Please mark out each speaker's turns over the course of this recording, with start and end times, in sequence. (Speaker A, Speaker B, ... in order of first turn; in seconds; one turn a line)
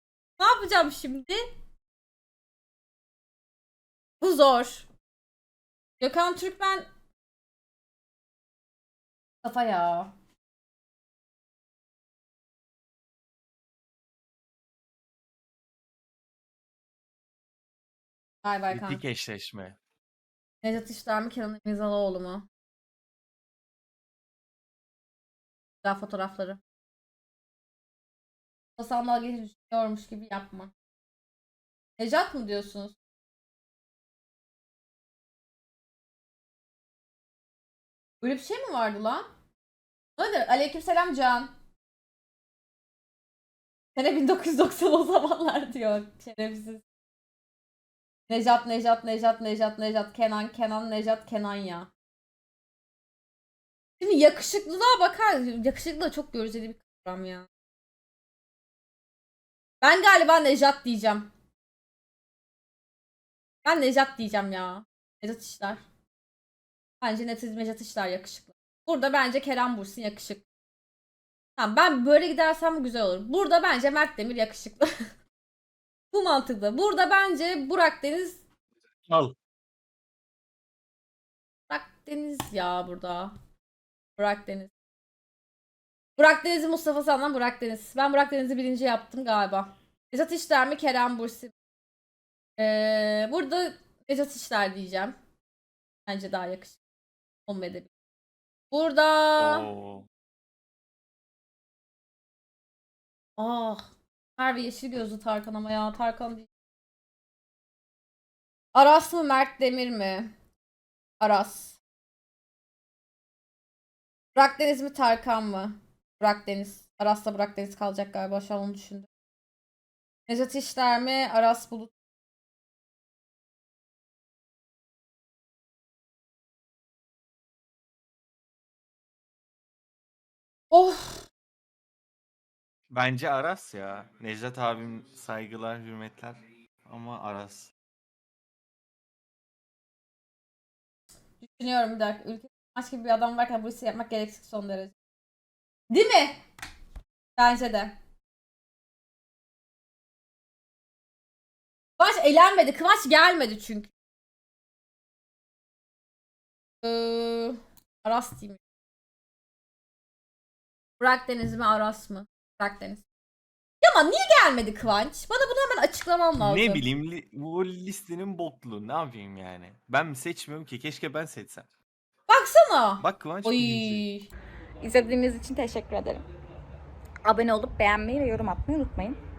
Speaker A: 0.4-1.4
Speaker A: 4.2-4.9
Speaker A: 6.0-6.9
Speaker A: 9.4-10.1
Speaker A: 18.4-19.0
Speaker B: 18.7-19.8
Speaker A: 20.6-22.4
Speaker A: 25.8-26.6
Speaker A: 28.8-30.7
Speaker A: 32.0-33.0
Speaker A: 38.2-39.2
Speaker A: 40.2-41.5
Speaker A: 43.9-46.8
Speaker A: 48.3-51.9
Speaker A: 54.0-57.5
Speaker A: 59.8-61.3
Speaker A: 63.6-65.8
Speaker A: 67.0-70.4
Speaker A: 71.6-74.9
Speaker A: 76.1-78.4
Speaker B: 79.1-79.3
Speaker A: 81.7-83.3
Speaker A: 84.2-84.7
Speaker A: 86.2-91.5
Speaker A: 92.6-95.2
Speaker A: 96.1-96.8
Speaker A: 97.5-97.9
Speaker A: 98.7-99.7
Speaker B: 99.4-100.1
Speaker A: 103.4-103.8
Speaker A: 104.4-106.5
Speaker A: 108.7-110.3
Speaker A: 111.2-111.8
Speaker A: 114.3-119.1
Speaker A: 120.3-121.9
Speaker A: 130.7-131.2
Speaker B: 132.9-137.7
Speaker A: 141.4-144.9
Speaker A: 145.9-146.4
Speaker A: 147.4-147.9
Speaker A: 152.0-153.9
Speaker A: 156.8-158.6
Speaker A: 161.0-163.0
Speaker A: 163.8-166.8
Speaker B: 166.4-171.7
Speaker A: 172.3-174.3
Speaker B: 173.0-174.0
Speaker C: 174.8-176.2
Speaker C: 177.2-179.2